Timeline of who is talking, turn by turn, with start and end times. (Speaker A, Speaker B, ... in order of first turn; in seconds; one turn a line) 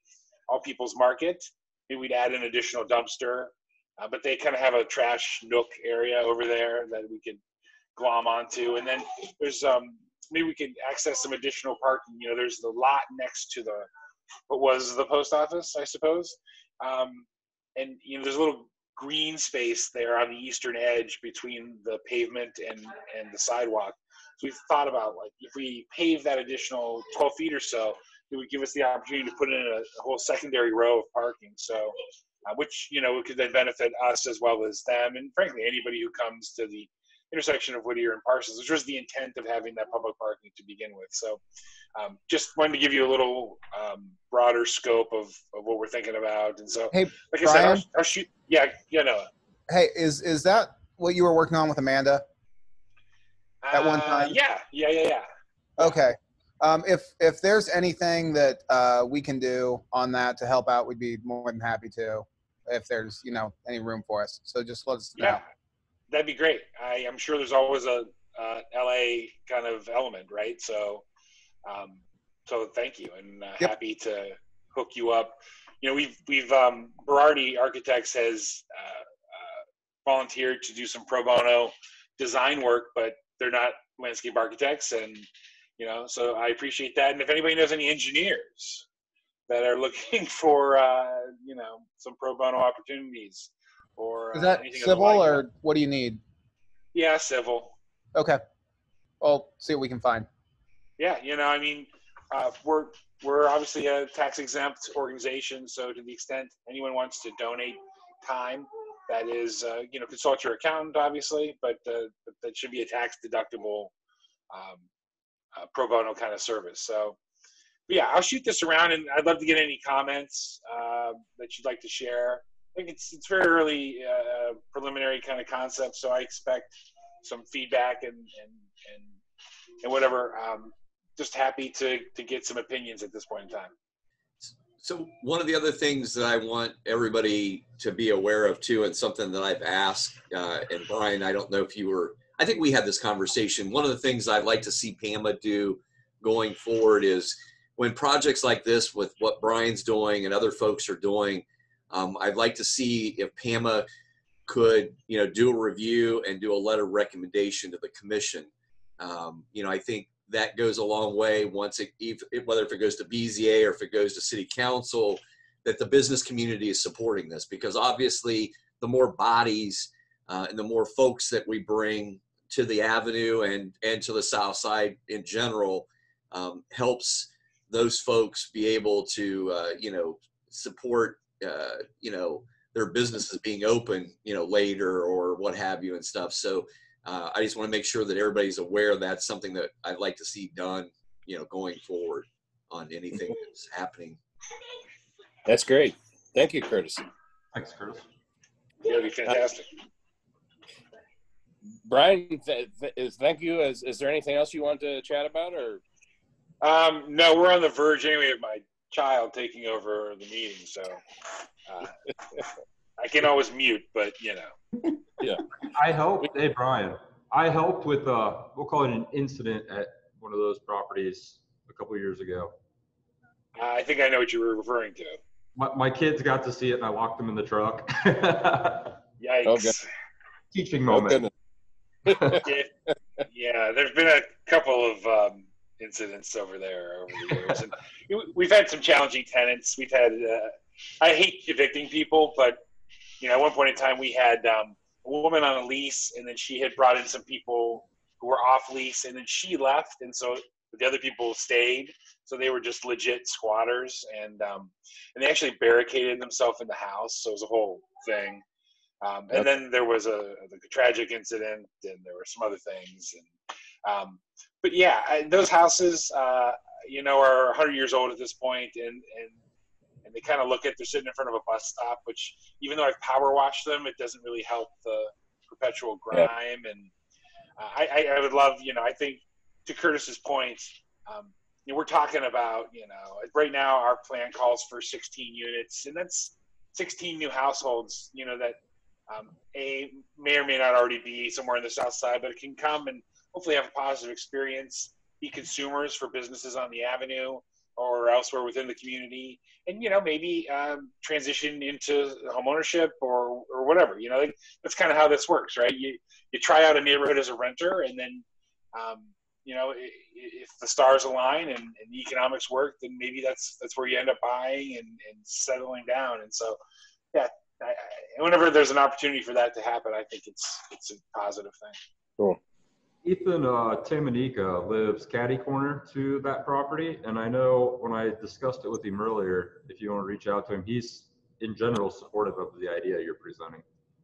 Speaker A: 0.5-7.4
Speaker A: 8.0-13.9
Speaker A: 14.5-31.9
Speaker A: 32.5-41.4
Speaker A: 42.0-49.3
Speaker B: 46.9-47.9
Speaker B: 49.7-52.2
Speaker A: 53.6-55.3
Speaker B: 53.7-54.4
Speaker B: 55.8-65.4
Speaker A: 65.2-65.4
Speaker A: 66.1-71.0
Speaker A: 71.7-85.3
Speaker A: 85.8-88.8
Speaker A: 89.5-95.4
Speaker B: 94.3-96.2
Speaker A: 96.9-97.8
Speaker B: 98.1-98.4
Speaker B: 99.2-100.3
Speaker A: 101.0-113.9
Speaker A: 114.5-114.8
Speaker A: 115.5-117.2
Speaker A: 117.9-129.1
Speaker A: 129.8-133.7
Speaker C: 134.4-153.9
Speaker C: 154.5-194.2
Speaker D: 195.4-197.0
Speaker E: 197.5-198.1
Speaker A: 198.8-199.7
Speaker D: 201.9-205.8
Speaker A: 206.6-211.0
Speaker A: 211.7-211.9
Speaker A: 213.0-214.5
Speaker E: 215.7-222.6
Speaker A: 223.6-225.2
Speaker E: 225.5-229.0
Speaker A: 229.2-229.9
Speaker D: 229.5-229.7
Speaker E: 230.5-231.3
Speaker D: 230.9-231.3
Speaker E: 232.1-232.4
Speaker A: 232.4-232.7
Speaker A: 233.3-242.6
Speaker A: 243.2-258.4
Speaker A: 259.0-263.3
Speaker A: 263.8-269.4
Speaker A: 270.0-276.9
Speaker A: 277.6-288.6
Speaker A: 289.1-316.6
Speaker A: 317.1-321.8
Speaker E: 323.0-333.6